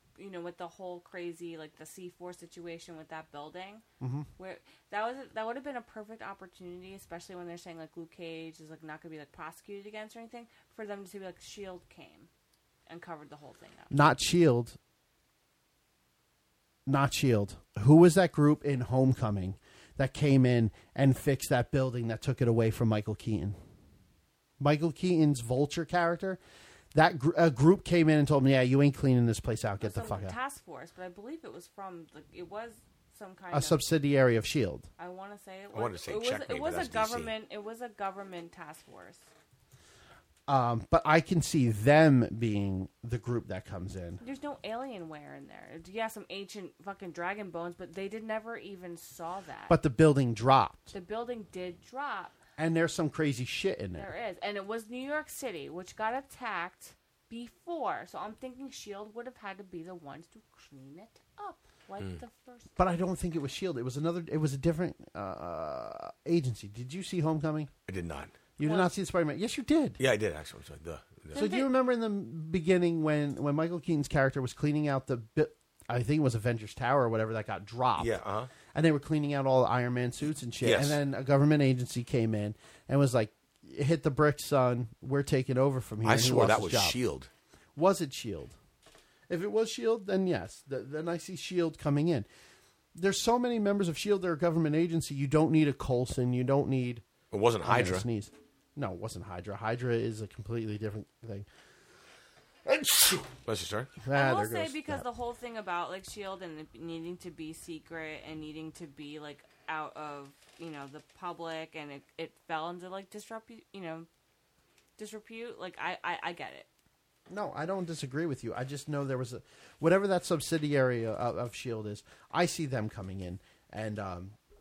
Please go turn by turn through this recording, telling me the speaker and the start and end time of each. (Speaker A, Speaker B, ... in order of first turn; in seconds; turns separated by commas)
Speaker A: 0.2-3.8, Speaker B: 4.0-4.3, Speaker A: 4.4-12.3, Speaker A: 12.9-13.9, Speaker B: 13.9-14.8, Speaker B: 16.9-23.6, Speaker B: 24.6-26.4, Speaker B: 26.9-30.4, Speaker A: 29.8-33.9, Speaker B: 33.5-34.9, Speaker A: 35.0-39.3, Speaker C: 35.7-37.3, Speaker B: 40.5-44.2, Speaker A: 44.2-49.8, Speaker B: 49.7-50.9, Speaker A: 50.9-52.4, Speaker B: 52.6-54.1, Speaker A: 54.0-62.7, Speaker B: 62.8-67.7, Speaker C: 67.9-68.4, Speaker B: 68.6-70.0, Speaker A: 68.6-68.9, Speaker C: 70.0-71.5, Speaker A: 71.3-71.7, Speaker B: 71.3-78.2, Speaker C: 78.0-78.5, Speaker B: 78.7-87.0, Speaker C: 80.6-81.0, Speaker C: 86.0-87.3, Speaker B: 87.8-88.6, Speaker B: 89.3-92.3, Speaker B: 93.0-97.0, Speaker C: 97.3-98.0, Speaker B: 97.6-101.5, Speaker C: 102.7-104.0, Speaker B: 104.0-105.0, Speaker A: 104.1-114.1, Speaker A: 115.0-116.7, Speaker B: 117.3-124.4